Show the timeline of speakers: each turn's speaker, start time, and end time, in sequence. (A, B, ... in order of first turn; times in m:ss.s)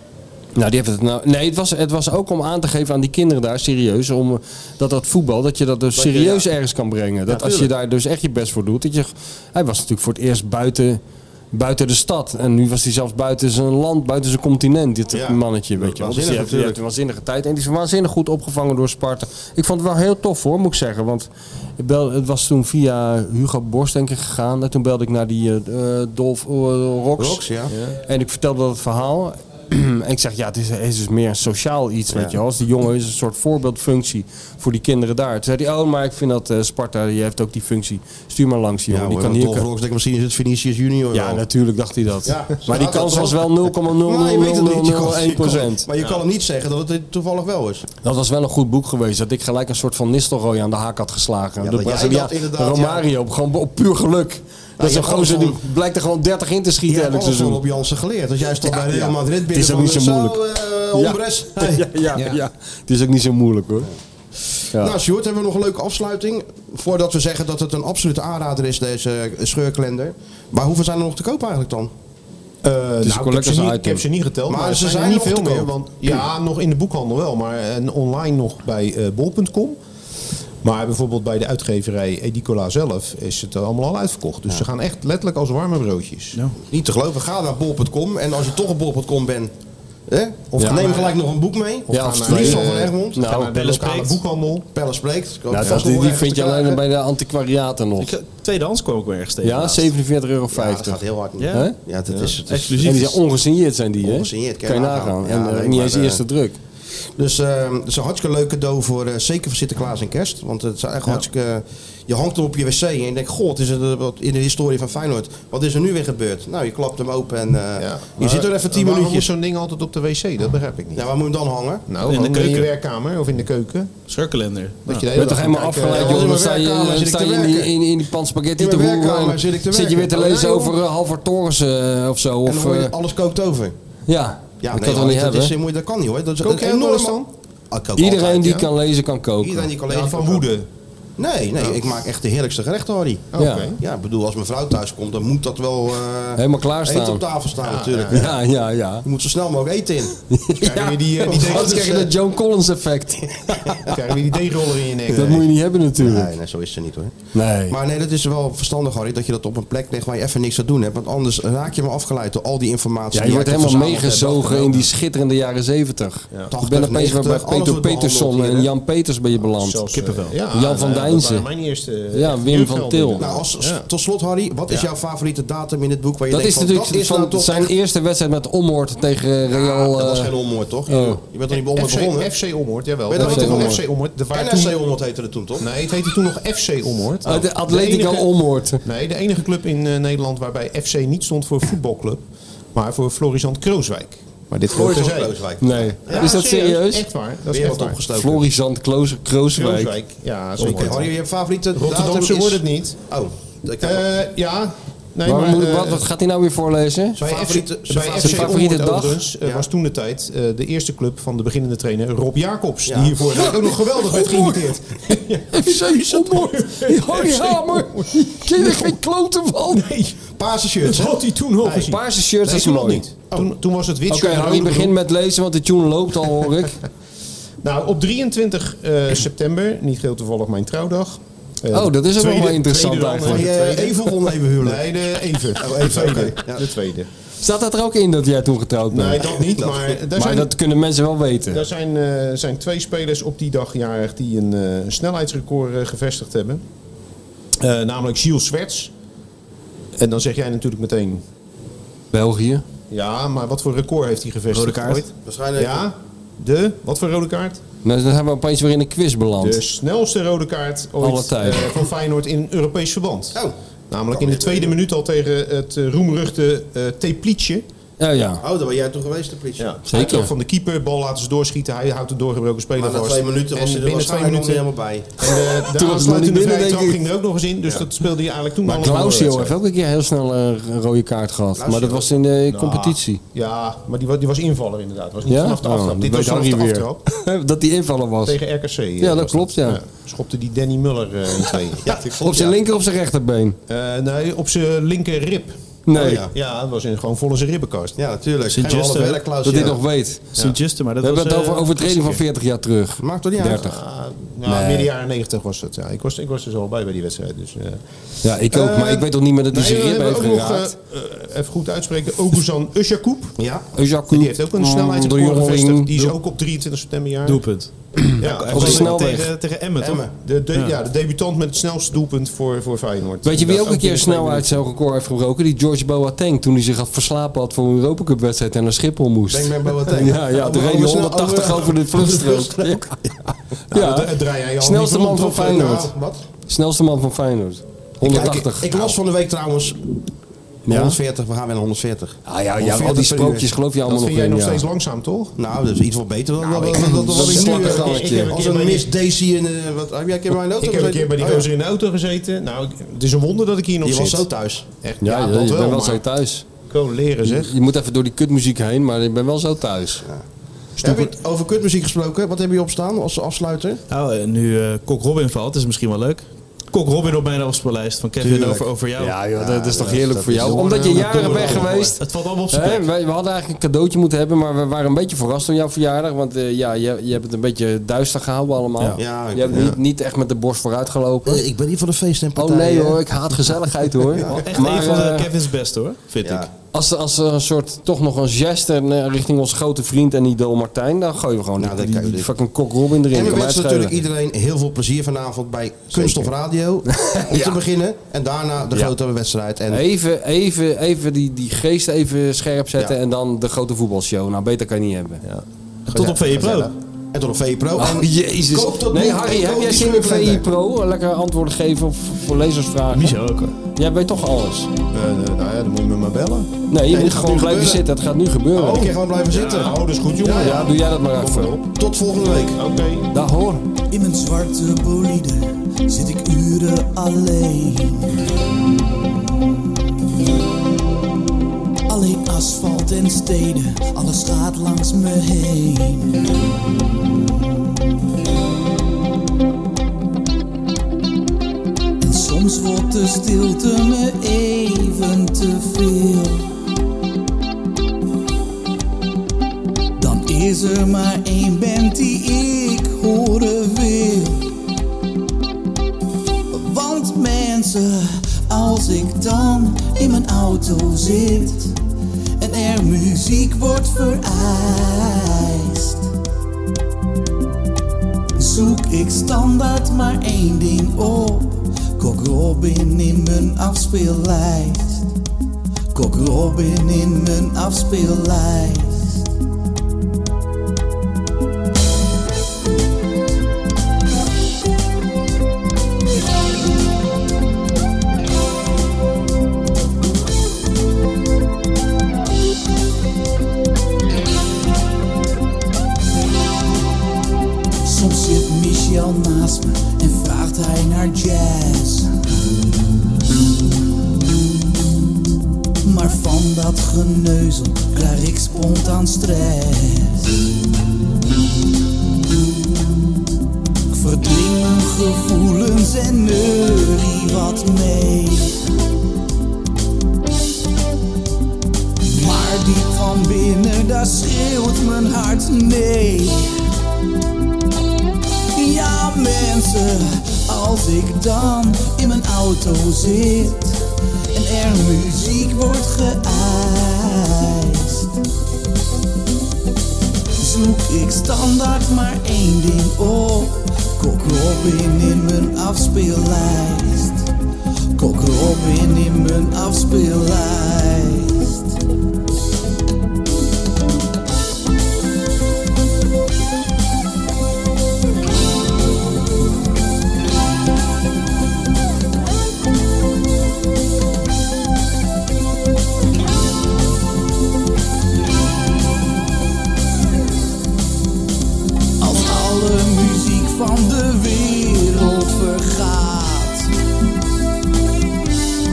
0:00.5-0:11.0 A
0:05.9-0:06.5 B
0:07.3-0:07.7 B
0:11.5-0:27.4 A
0:15.1-0:16.8 B
0:27.2-0:27.7 B
0:28.0-0:39.6 A
0:32.1-0:32.4 B
0:38.9-0:41.4 B
0:41.1-0:45.9 A
0:42.2-0:47.8 B
0:48.0-0:57.6 A
0:51.6-0:53.1 B
0:54.8-0:55.6 B
0:56.9-1:02.0 B
0:58.6-1:00.4 A
1:00.9-1:03.9 A
1:04.7-1:05.0 A
1:04.7-1:11.9 B
1:12.6-1:19.8 C
1:13.0-1:14.0 A
1:14.5-1:16.2 B
1:20.6-1:26.4 C
1:26.6-1:29.5 B
1:30.1-1:33.2 B
1:30.5-1:31.1 C
1:30.6-1:30.8 A
1:31.9-1:34.6 C
1:31.9-1:33.5 A
1:33.3-1:34.2 D
1:34.7-1:36.8 B
1:35.5-1:38.1 A
1:35.6-1:35.8 C
1:38.0-1:39.9 D
1:39.4-1:41.0 A
1:40.5-1:42.8 B
1:41.4-1:43.2 D
1:42.8-1:46.6 A
1:44.0-1:46.2 B
1:47.0-1:59.3 B
1:57.8-2:01.0 C
2:00.9-2:01.8 B
2:01.9-2:03.9 C
2:02.0-2:02.7 D
2:04.1-2:04.8 D
2:04.8-2:06.3 C
2:05.1-2:12.9 A
2:05.8-2:07.7 B
2:08.6-2:10.4 B
2:10.1-2:10.7 C
2:12.4-2:13.7 B
2:14.1-2:15.5 A
2:14.6-2:18.6 B
2:16.4-2:17.3 C
2:18.0-2:19.7 A
2:18.4-2:18.6 C
2:19.4-2:20.5 B
2:19.8-2:20.6 C
2:21.2-2:28.4 B
2:23.3-2:23.8 C
2:23.4-2:23.7 A
2:26.4-2:27.2 A
2:27.6-2:28.3 C
2:28.1-2:29.0 A
2:29.0-2:30.1 B
2:30.3-2:34.0 A
2:30.6-2:32.1 C
2:31.3-2:32.1 B
2:33.9-2:35.5 C
2:35.1-2:35.4 B
2:35.1-2:36.3 A
2:36.0-2:44.9 B
2:37.3-2:37.8 A
2:43.1-2:49.8 A
2:46.5-2:48.7 B
2:49.4-2:53.8 C
2:49.9-2:50.4 D
2:50.5-2:51.4 A
2:52.1-2:53.3 A
2:53.2-2:57.7 B
2:56.3-3:00.3 A
2:59.5-3:02.3 B
3:00.9-3:01.2 A
3:01.6-3:04.8 C
3:03.1-3:05.7 B
3:03.1-3:03.8 A
3:05.6-3:08.3 C
3:07.2-3:08.8 A
3:08.8-3:12.2 C
3:12.7-3:15.3 C
3:14.7-3:16.5 B
3:15.6-3:17.0 A
3:16.1-3:18.0 C
3:17.5-3:18.5 B
3:18.1-3:19.9 A
3:19.6-3:21.1 C
3:20.6-3:24.0 B
3:21.7-3:23.0 C
3:23.8-3:26.0 C
3:25.2-3:27.2 A
3:27.2-3:28.7 B
3:27.2-3:39.0 C
3:28.1-3:29.2 A
3:32.8-3:33.3 B
3:33.3-3:39.9 A
3:39.7-3:40.2 C
3:40.3-3:42.0 B
3:40.8-3:44.9 C
3:41.8-3:43.1 A
3:44.1-3:46.8 A
3:47.6-3:57.1 C
3:51.7-3:53.5 A
3:53.2-3:56.7 B
3:57.4-3:59.3 A
3:58.9-4:00.5 C
3:59.2-3:59.9 B
4:00.1-4:01.6 A
4:01.5-4:06.6 C
4:07.6-4:08.9 C
4:10.0-4:11.2 C
4:12.1-4:12.6 A
4:12.9-4:17.6 C
4:14.5-4:15.1 D
4:15.1-4:15.9 B
4:17.8-4:19.6 A
4:19.4-4:27.6 C
4:21.0-4:21.7 A
4:24.1-4:24.8 B
4:28.0-4:28.4 A
4:28.4-4:30.2 B
4:29.6-4:34.6 C
4:29.9-4:30.3 A
4:32.8-4:35.3 B
4:35.2-4:39.5 C
4:35.8-4:37.0 A
4:38.6-4:43.2 A
4:41.6-4:42.1 B
4:42.5-4:47.0 C
4:45.3-4:48.4 A
4:48.2-4:51.9 C
4:49.0-4:49.8 A
4:51.8-4:52.6 B
4:51.8-4:53.6 A
4:53.7-4:55.6 C
4:55.9-4:56.3 A
4:55.9-4:56.3 B
4:56.3-4:58.0 C
4:58.0-4:59.8 B
4:58.5-4:59.2 D
4:59.4-5:00.2 A
5:00.3-5:02.2 D
5:01.0-5:03.8 A
5:03.0-5:03.7 B
5:03.6-5:07.8 C
5:04.4-5:04.9 A
5:08.2-5:10.7 A
5:08.5-5:13.4 C
5:13.4-5:13.6 B
5:13.7-5:15.9 A
5:14.1-5:17.6 C
5:17.2-5:20.7 D
5:18.2-5:18.9 C
5:18.5-5:19.3 A
5:19.8-5:20.1 B
5:19.8-5:24.6 C
5:23.2-5:35.9 A
5:29.3-5:32.9 B
5:33.7-5:35.9 C
5:35.2-5:36.2 B
5:36.5-5:38.9 A
5:38.0-5:39.9 B
5:40.7-5:41.0 A
5:40.7-5:43.5 B
5:42.2-5:44.6 A
5:43.9-5:45.3 C
5:45.4-5:51.5 B
5:46.4-5:48.9 C
5:46.7-5:48.3 A
5:50.6-5:56.0 C
5:53.8-5:54.7 B
5:55.0-5:56.4 A
5:56.6-5:57.5 C
5:57.2-6:00.0 A
6:00.8-6:03.8 B
6:03.9-6:09.2 D
6:08.2-6:08.7 B
6:09.0-6:12.0 A
6:09.4-6:11.6 B
6:10.2-6:12.0 C
6:11.0-6:12.8 D
6:12.5-6:21.4 A
6:18.9-6:19.8 B
6:21.2-6:23.0 B
6:22.4-6:25.3 A
6:24.2-6:24.9 B
6:24.3-6:26.4 D
6:26.2-6:26.5 B
6:26.7-6:34.0 A
6:31.6-6:32.3 B
6:33.1-6:39.8 B
6:36.0-6:36.2 C
6:36.9-6:37.6 A
6:39.7-6:45.2 A
6:45.2-6:46.7 C
6:45.9-6:46.7 D
6:47.1-6:50.5 B
6:47.8-6:53.2 A
6:52.9-6:53.5 D
6:53.7-6:54.7 A
6:54.9-6:56.5 C
6:56.7-6:59.0 A
6:56.9-6:57.8 B
6:58.5-7:00.7 B
6:58.6-7:01.6 C
7:00.3-7:01.6 A
7:01.7-7:02.6 B
7:02.6-7:03.1 C
7:03.1-7:03.6 A
7:03.9-7:08.1 E
7:11.9-7:16.2 E
7:22.0-7:26.5 E
7:30.0-7:34.6 E
7:36.5-7:41.8 E
7:42.4-7:46.0 E
7:48.4-7:55.1 E
7:55.9-7:59.3 E
8:17.8-8:22.1 E
8:25.8-8:30.5 E
8:33.9-8:38.6 E
8:42.0-8:46.5 E
8:48.5-8:58.2 E
9:00.4-9:07.3 E
9:08.0-9:11.7 E
9:32.0-9:36.7 E